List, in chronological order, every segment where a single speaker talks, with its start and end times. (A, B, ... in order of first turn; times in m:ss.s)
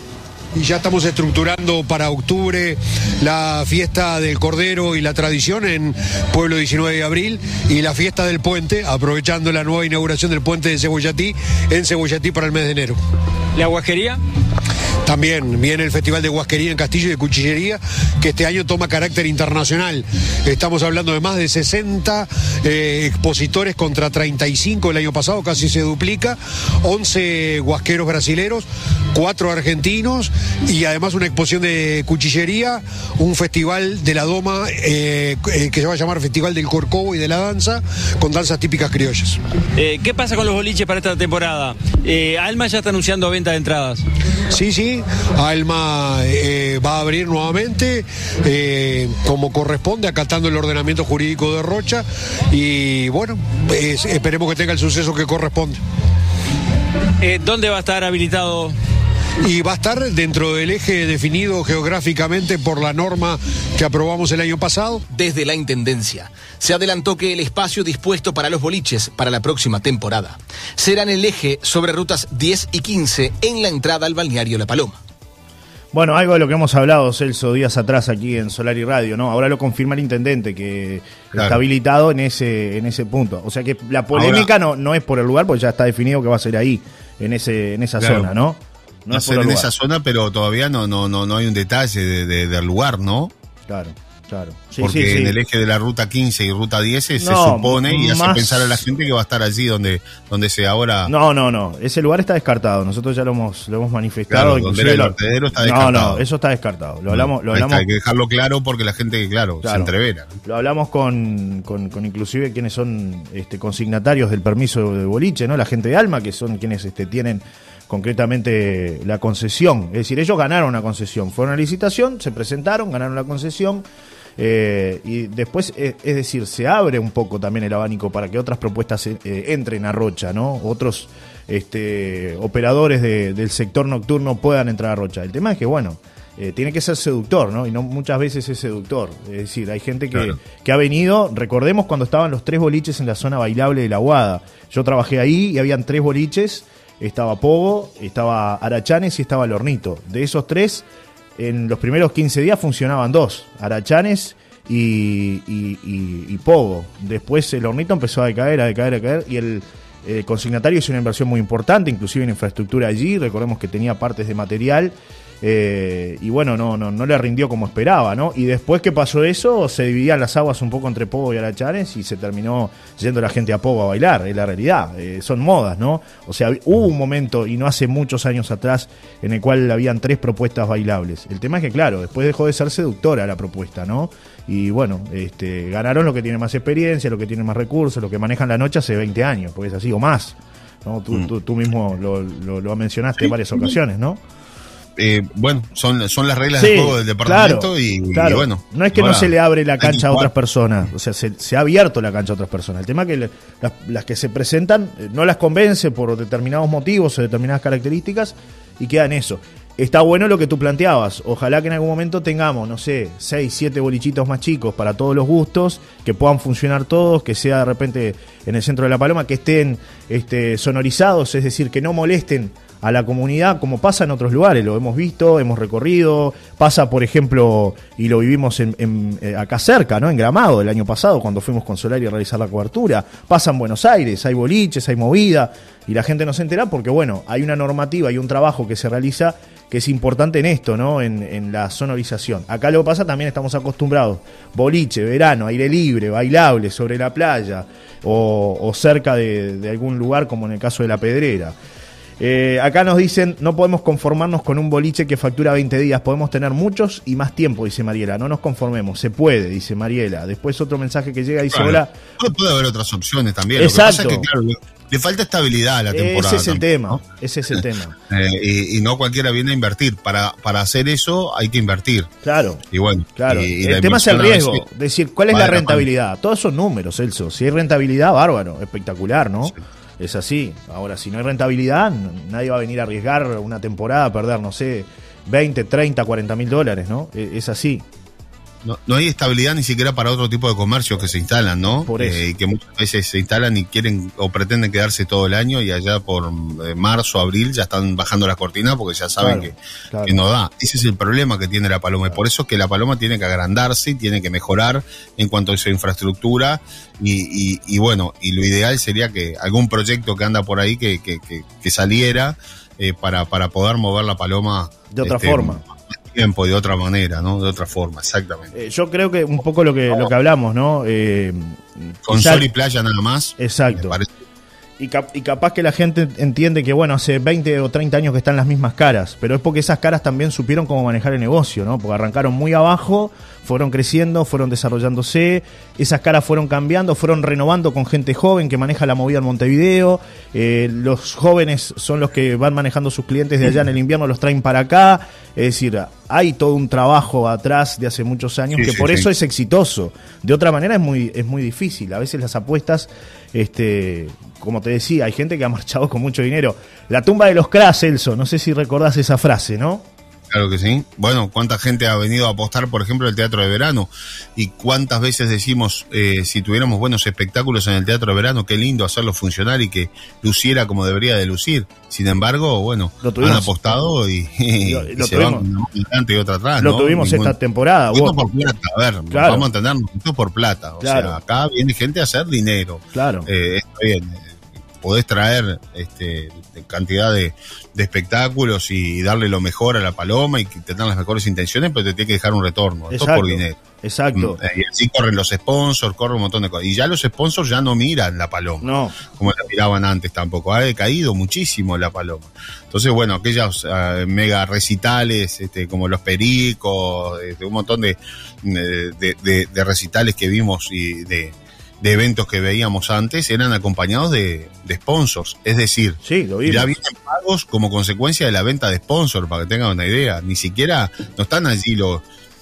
0:00.6-0:13.0 A
0:13.6-0:14.2 B
0:15.0-0:39.4 A
0:39.8-0:44.0 B
0:44.5-0:55.8 A
0:57.2-0:58.7 B
0:59.4-1:05.0 A
1:05.1-1:15.0 C
1:15.9-1:29.7 D
1:21.3-1:21.6 E
1:24.1-1:24.5 E
1:28.0-1:28.3 E
1:29.1-1:33.3 E
1:33.7-1:35.4 D
1:34.8-1:41.1 E
1:37.2-1:38.8 D
1:41.1-1:47.8 D
1:44.3-1:46.2 E
1:47.1-1:50.3 E
1:49.6-1:49.9 D
1:50.4-2:03.8 D
2:04.4-2:30.8 D
2:31.4-3:14.2 D
3:13.2-3:13.7 E
3:15.0-3:20.3 E
3:16.6-4:11.6 D
4:12.2-4:21.9 D
4:21.5-4:27.0 E
4:23.6-4:24.3 D
4:25.9-4:28.0 D
4:28.1-4:32.1 E
4:32.2-4:32.6 D
4:32.7-4:34.6 E
4:33.2-4:47.8 D
4:35.3-4:35.9 E
4:48.6-5:18.5 E
4:51.8-4:52.2 D
4:59.2-5:00.2 D
5:14.9-5:15.6 D
5:18.5-5:22.5 D
5:22.1-5:24.1 E
5:23.4-5:24.0 D
5:24.8-5:59.8 D
5:48.5-5:49.1 E
6:00.3-6:17.4 E
6:13.0-6:13.9 D
6:14.6-6:15.5 D
6:16.6-6:18.2 D
6:17.9-6:33.6 E
6:19.1-6:19.5 D
6:20.8-6:21.2 D
6:22.9-6:23.3 D
6:32.9-6:34.4 D
6:34.2-7:02.0 E
6:38.6-6:39.0 D
6:56.0-6:56.7 D